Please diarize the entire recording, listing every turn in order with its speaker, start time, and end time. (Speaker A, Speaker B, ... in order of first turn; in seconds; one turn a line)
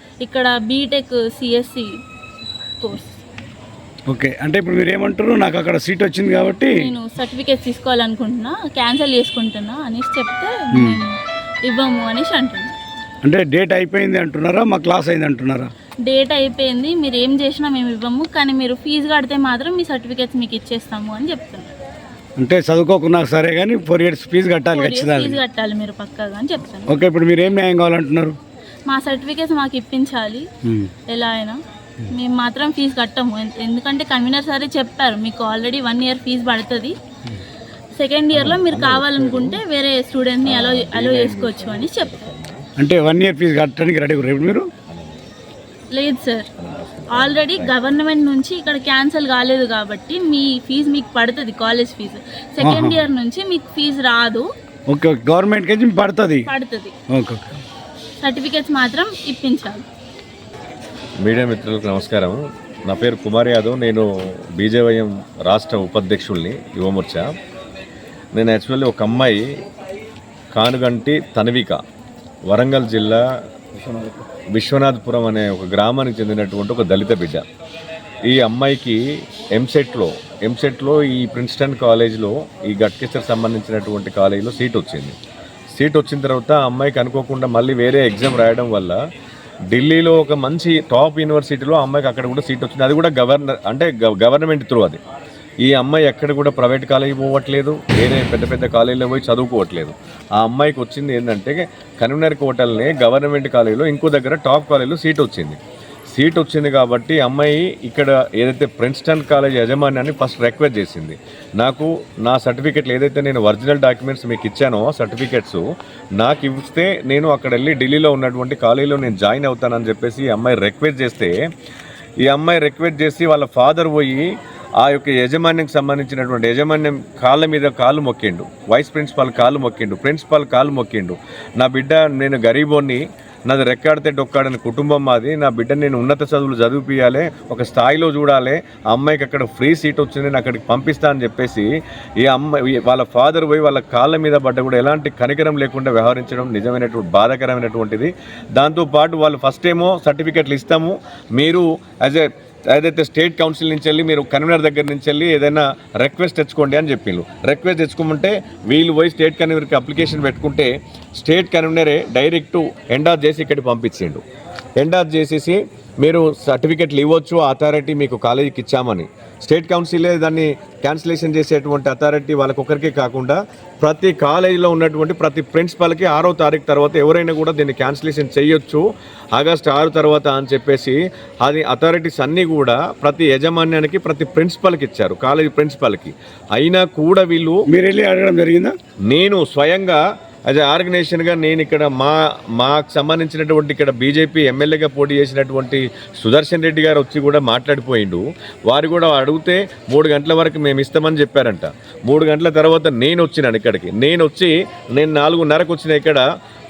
Speaker A: 0.2-1.9
Speaker A: 2.8-3.2
Speaker B: 4.1-6.8
Speaker A: 6.8-12.8
Speaker B: 10.7-11.0
Speaker B: 13.2-15.7
Speaker A: 16.1-21.7
Speaker B: 22.4-25.4
Speaker A: 24.7-27.0
Speaker B: 26.9-28.4
Speaker A: 28.9-30.5
Speaker B: 30.6-30.9
Speaker A: 31.1-37.0
Speaker A: 38.0-42.3
Speaker C: 38.5-39.6
Speaker C: 40.4-42.6
Speaker B: 42.8-44.7
Speaker C: 44.9-45.3
Speaker A: 45.9-46.5
Speaker C: 46.6-47.7
Speaker A: 47.1-54.5
Speaker B: 52.6-53.0
Speaker B: 54.9-56.5
Speaker A: 56.5-56.9
Speaker B: 57.1-57.6
Speaker A: 58.2-59.9
Speaker C: 61.2-67.3
Speaker C: 68.3-69.5
Speaker C: 70.5-71.8
Speaker C: 72.5-73.2
Speaker C: 73.9-77.5
Speaker C: 78.3-79.0
Speaker C: 79.5-85.2
Speaker C: 85.7-89.0
Speaker C: 89.7-95.0
Speaker C: 95.7-105.6
Speaker C: 106.1-115.6
Speaker C: 116.2-121.3
Speaker C: 122.2-141.7
Speaker C: 142.2-164.2
Speaker C: 164.8-178.8
Speaker C: 179.3-187.6
Speaker B: 187.7-188.7
Speaker C: 189.1-206.2